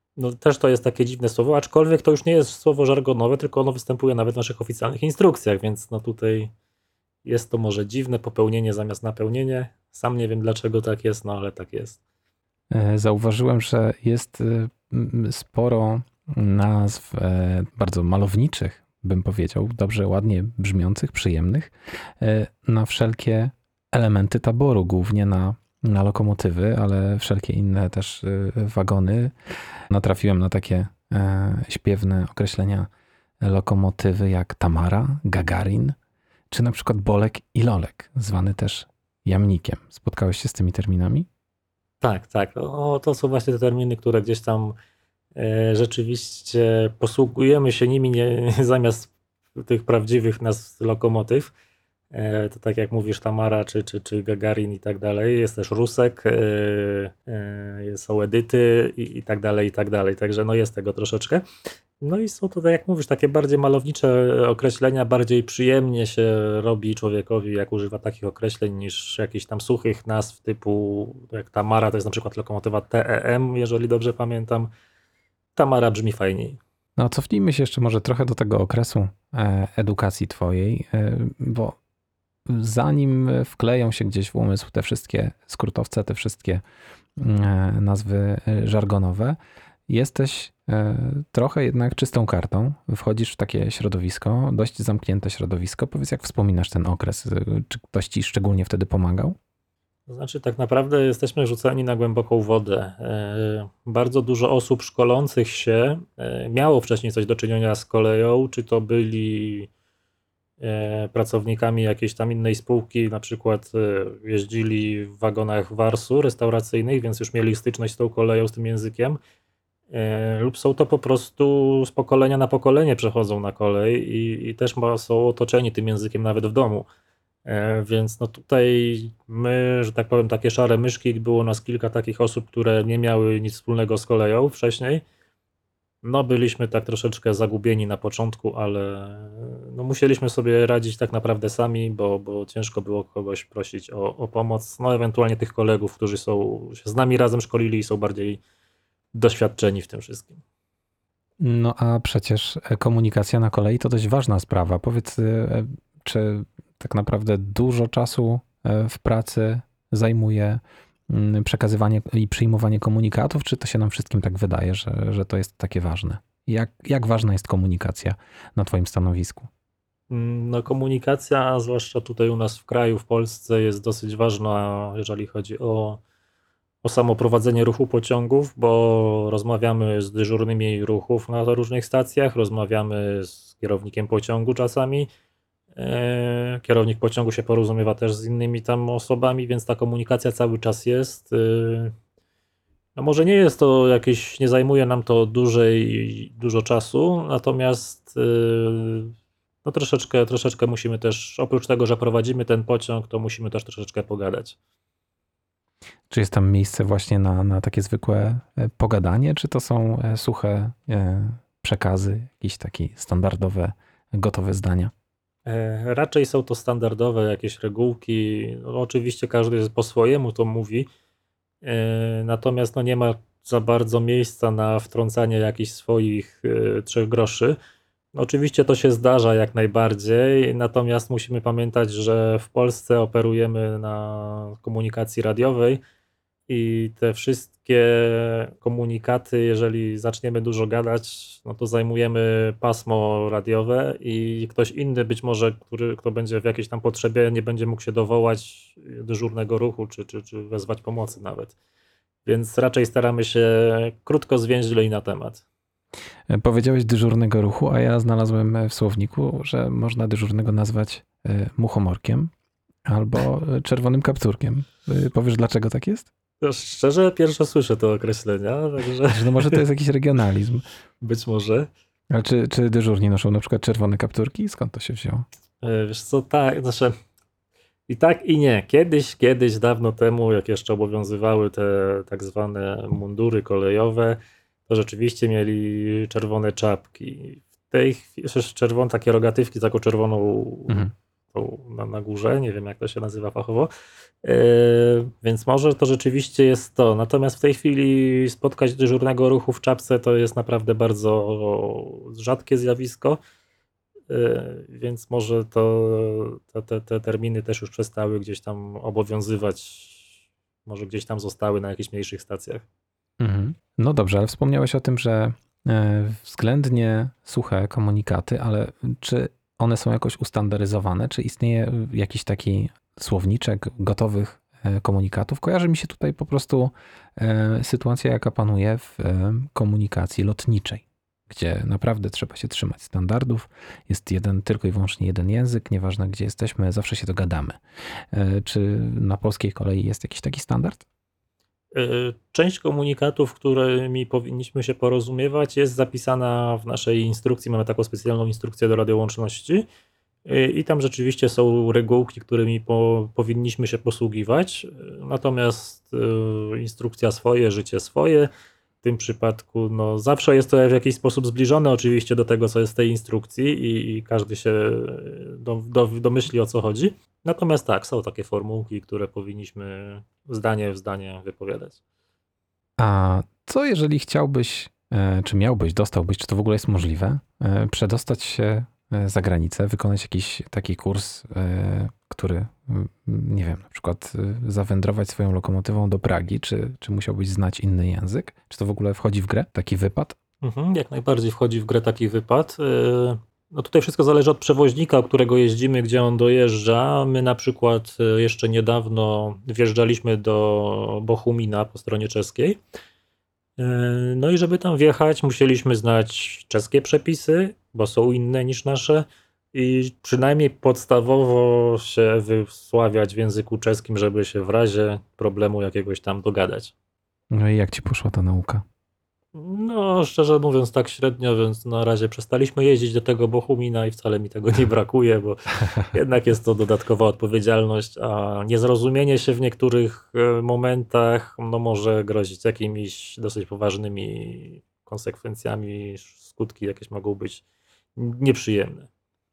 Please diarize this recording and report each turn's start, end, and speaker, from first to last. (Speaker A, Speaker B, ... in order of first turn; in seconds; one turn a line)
Speaker A: 0.2-6.5
Speaker A: 7.2-12.0
Speaker B: 12.7-29.3
Speaker B: 29.9-32.9
Speaker B: 33.4-36.0
Speaker B: 36.5-41.3
Speaker A: 42.0-44.8
Speaker A: 45.4-51.5
Speaker A: 52.1-61.4
Speaker A: 62.0-74.7
Speaker A: 75.5-76.6
Speaker B: 77.0-81.8
Speaker B: 82.5-86.6
Speaker B: 87.2-89.4
Speaker B: 89.9-99.4
Speaker A: 100.1-109.7
Speaker A: 110.6-119.2
Speaker A: 119.9-126.9
Speaker A: 127.5-135.0
Speaker A: 136.0-148.4
Speaker A: 149.1-150.4
Speaker B: 151.4-169.5
Speaker A: 170.1-176.0
Speaker A: 176.8-185.1
Speaker A: 185.8-191.9
Speaker A: 193.0-199.1
Speaker A: 199.6-204.6
Speaker B: 206.1-214.9
Speaker A: 215.5-220.9
Speaker A: 221.6-227.6
Speaker A: 228.2-235.8
Speaker A: 236.5-251.6
Speaker A: 252.2-255.4
Speaker B: 256.3-262.3
Speaker B: 262.9-266.1
Speaker A: 266.4-269.6
Speaker B: 269.1-270.6
Speaker A: 271.0-271.7
Speaker B: 272.1-275.2
Speaker A: 275.6-276.9
Speaker A: 277.9-293.7
Speaker A: 294.2-303.2
Speaker A: 304.1-310.1
Speaker A: 310.7-312.6
Speaker B: 313.2-337.6
Speaker B: 338.1-340.9
Speaker A: 341.7-349.7
Speaker A: 350.3-358.3
Speaker A: 358.8-371.8
Speaker B: 372.8-390.2
Speaker A: 390.4-402.6
Speaker A: 403.6-416.7
Speaker B: 417.3-418.6
Speaker A: 419.3-437.4
Speaker A: 438.0-438.9